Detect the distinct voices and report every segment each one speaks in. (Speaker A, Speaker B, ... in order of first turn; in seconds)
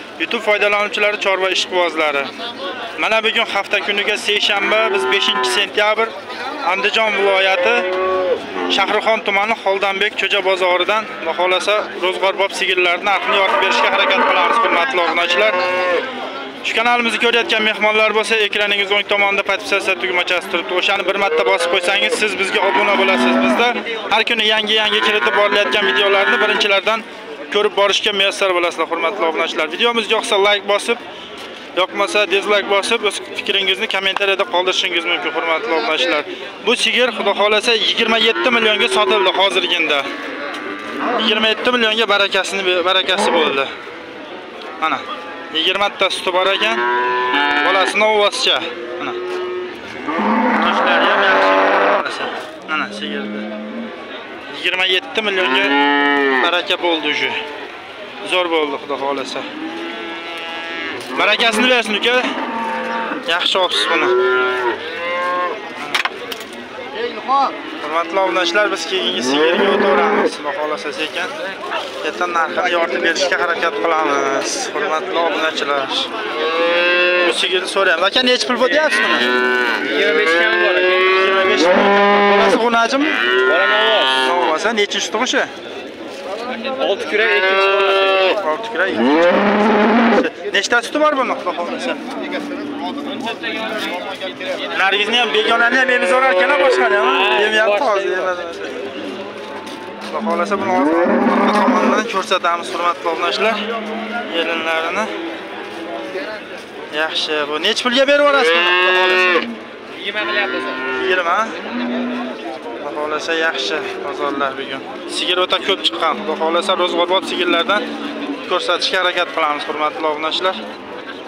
Speaker A: 0.2-2.3, 3.0-7.9, 8.7-15.6, 16.6-31.0, 31.8-40.1, 41.1-43.7, 44.8-46.8, 47.6-49.2, 50.5-53.5, 54.5-55.8, 56.3-57.4, 58.2-59.5, 61.1-62.3, 63.2-64.2, 67.8-71.3, 72.0-76.1, 77.1-79.3, 81.0-83.2, 84.2-85.5, 88.3-92.0, 94.5-98.9, 100.0-103.6, 104.2-105.1, 106.9-109.5, 110.9-111.5, 112.8-117.8, 118.5-120.6
Speaker B: 79.8-81.0, 83.5-84.1, 86.6-88.3, 110.0-110.8